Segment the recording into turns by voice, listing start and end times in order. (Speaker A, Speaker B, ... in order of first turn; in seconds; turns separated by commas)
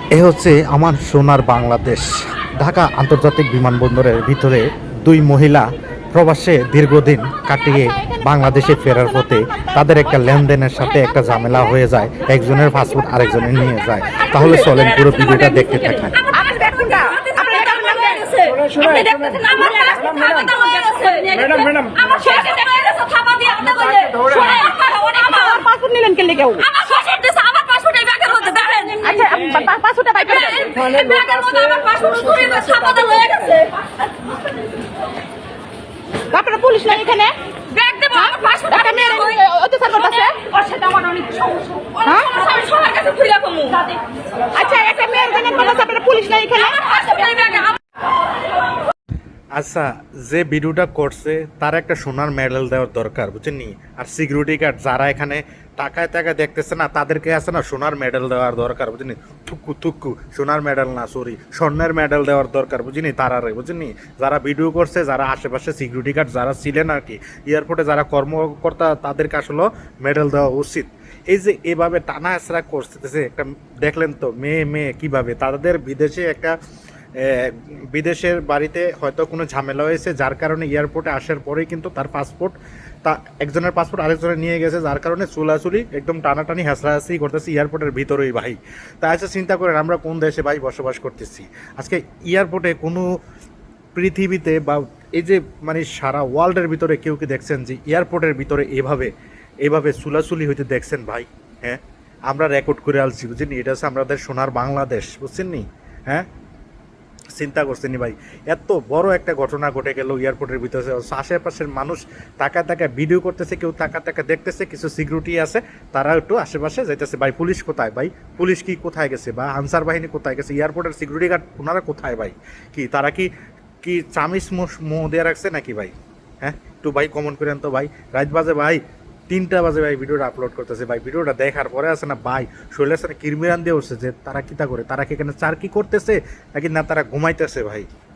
Speaker A: 0.1-16.2, Speaker B: 16.3-18.6, Speaker C: 18.6-25.0, Speaker B: 25.0-26.7, Speaker C: 26.7-29.0, Speaker B: 29.0-30.9, Speaker C: 30.8-33.7, Speaker B: 36.3-37.3, Speaker C: 37.7-38.7, Speaker B: 38.1-40.5, Speaker C: 40.5-43.9, Speaker B: 42.0-42.4, Speaker B: 44.5-47.5, Speaker A: 49.5-76.5, Speaker A: 77.2-93.2, Speaker A: 93.9-99.1, Speaker A: 99.6-106.3, Speaker A: 107.3-123.3, Speaker A: 123.8-137.9